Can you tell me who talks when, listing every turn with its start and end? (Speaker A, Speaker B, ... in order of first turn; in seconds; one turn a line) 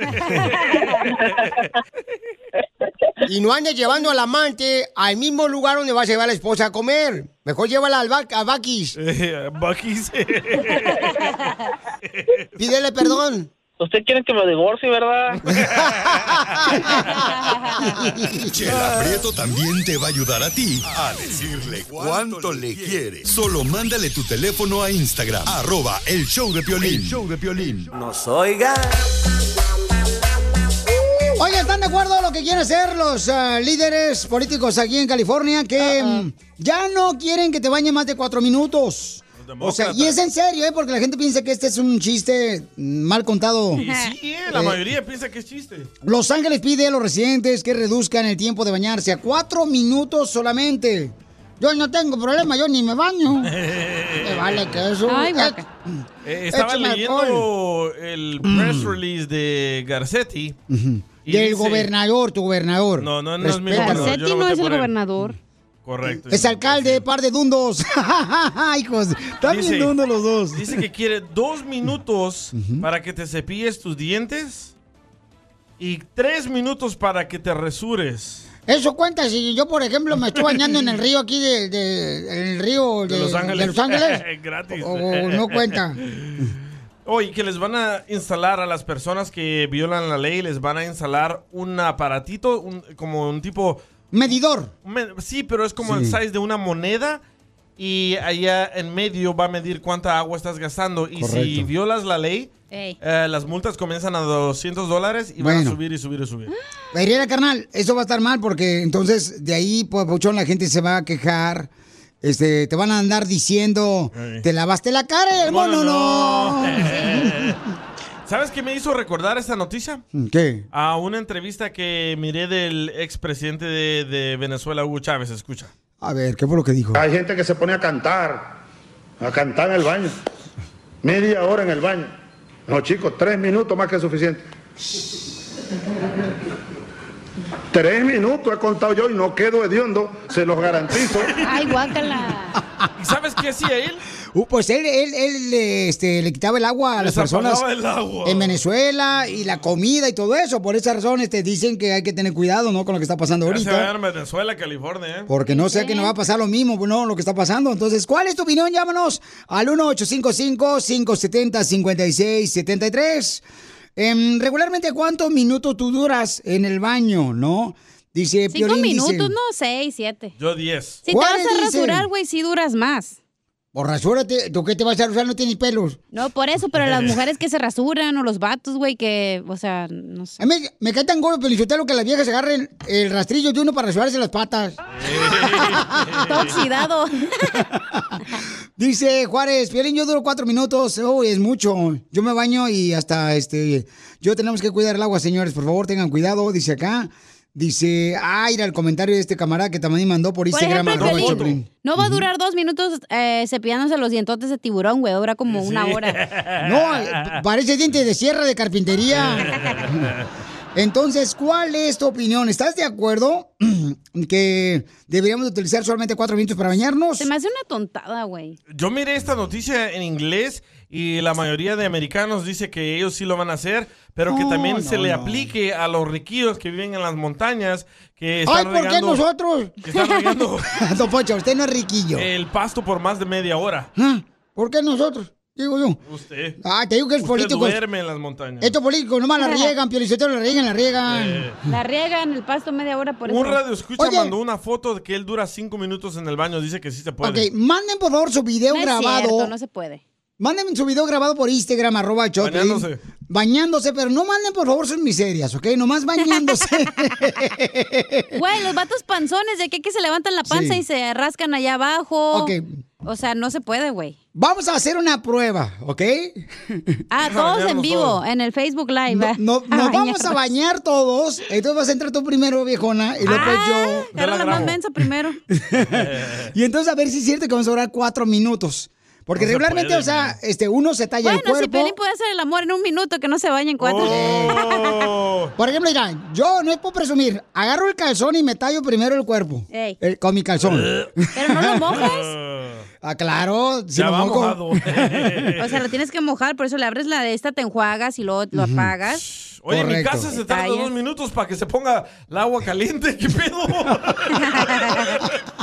Speaker A: 0.3-0.9
Speaker B: 1.1-1.4
Speaker C: 3.3-8.9
Speaker D: 9.0-11.3
Speaker D: 12.1-12.4
Speaker C: 12.6-13.5
Speaker B: 13.8-15.4
Speaker D: 15.5-16.5
Speaker C: 15.5-17.2
Speaker A: 17.4-17.7
Speaker C: 17.8-18.8
Speaker E: 18.5-27.9
Speaker F: 31.3-43.8
Speaker D: 39.4-40.2
Speaker D: 43.8-45.9
Speaker A: 43.8-44.1
Speaker F: 44.5-44.8
Speaker F: 46.0-53.5
Speaker D: 53.4-54.8
Speaker F: 54.2-57.5
Speaker A: 55.1-55.6
Speaker D: 56.2-60.5
Speaker F: 58.4-58.9
Speaker F: 60.7-64.1
Speaker D: 61.2-61.9
Speaker D: 63.0-64.9
Speaker A: 63.7-65.3
Speaker D: 65.8-67.0
Speaker F: 66.1-70.8
Speaker D: 69.4-69.9
Speaker D: 70.5-74.7
Speaker F: 72.5-72.8
Speaker D: 75.8-78.5
Speaker F: 78.7-86.0
Speaker D: 83.1-85.6
Speaker D: 86.2-86.5
Speaker D: 87.0-93.8
Speaker F: 94.1-94.7
Speaker D: 94.8-97.2
Speaker F: 95.8-96.2
Speaker D: 97.8-106.5
Speaker F: 101.2-101.7
Speaker A: 102.7-103.0
Speaker F: 105.4-105.8
Speaker F: 106.9-111.7
Speaker F: 112.2-117.6
Speaker D: 114.1-114.4
Speaker D: 115.4-117.6
Speaker D: 118.3-120.0
Speaker F: 120.1-120.6
Speaker D: 120.7-125.7
Speaker F: 126.0-127.0
Speaker G: 127.0-128.6
Speaker G: 129.2-130.2
Speaker G: 131.0-132.1
Speaker G: 132.7-134.4
Speaker G: 137.7-141.4
Speaker A: 141.4-142.6
Speaker D: 142.9-144.0
Speaker F: 144.3-147.6
Speaker D: 147.0-148.6
Speaker F: 148.2-153.9
Speaker D: 153.4-155.3
Speaker F: 155.3-163.4
Speaker A: 155.5-156.1
Speaker F: 163.9-169.3
Speaker A: 168.5-170.3
Speaker D: 170.4-171.0
Speaker A: 171.0-173.2
Speaker F: 171.1-172.1
Speaker F: 173.7-176.0
Speaker A: 176.1-180.4
Speaker F: 180.4-184.8
Speaker D: 184.9-186.4
Speaker F: 185.4-186.2
Speaker A: 186.2-187.6
Speaker F: 187.6-188.2
Speaker F: 188.8-202.2
Speaker A: 200.5-206.2
Speaker D: 200.9-201.6
Speaker D: 205.5-207.3
Speaker F: 206.6-210.1
Speaker D: 209.1-210.1
Speaker F: 210.7-217.3
Speaker A: 217.2-218.6
Speaker D: 218.7-229.2
Speaker F: 224.3-225.5
Speaker F: 228.4-229.8
Speaker D: 229.8-230.8
Speaker F: 230.7-232.3
Speaker D: 232.2-233.9
Speaker F: 233.9-236.0
Speaker D: 236.1-236.6
Speaker F: 236.6-237.8
Speaker D: 237.2-238.8
Speaker F: 238.6-241.5
Speaker A: 239.4-239.7
Speaker D: 241.1-241.6
Speaker A: 241.7-243.6
Speaker D: 243.2-247.5
Speaker F: 244.0-244.3
Speaker F: 247.2-249.5
Speaker A: 248.7-250.0
Speaker F: 250.4-258.3
Speaker D: 252.4-253.0
Speaker A: 258.3-262.5
Speaker F: 260.5-260.8
Speaker F: 262.3-262.7
Speaker A: 263.0-264.1
Speaker F: 264.3-267.0
Speaker A: 267.1-270.5
Speaker D: 267.2-268.2
Speaker F: 269.1-274.6
Speaker D: 273.2-273.6
Speaker A: 273.2-275.4
Speaker D: 274.1-274.8
Speaker F: 275.5-281.9
Speaker D: 275.9-276.5
Speaker D: 279.4-280.4
Speaker A: 281.2-284.8
Speaker D: 283.8-285.5
Speaker F: 284.0-284.6
Speaker F: 285.6-292.0
Speaker A: 289.7-290.0
Speaker D: 290.6-291.1
Speaker A: 291.4-292.3
Speaker D: 291.9-292.9
Speaker F: 293.0-295.5
Speaker D: 293.9-295.7
Speaker A: 295.6-299.2
Speaker F: 298.5-298.9
Speaker D: 299.2-305.2
Speaker F: 299.7-300.3
Speaker A: 300.4-300.9
Speaker A: 304.3-305.2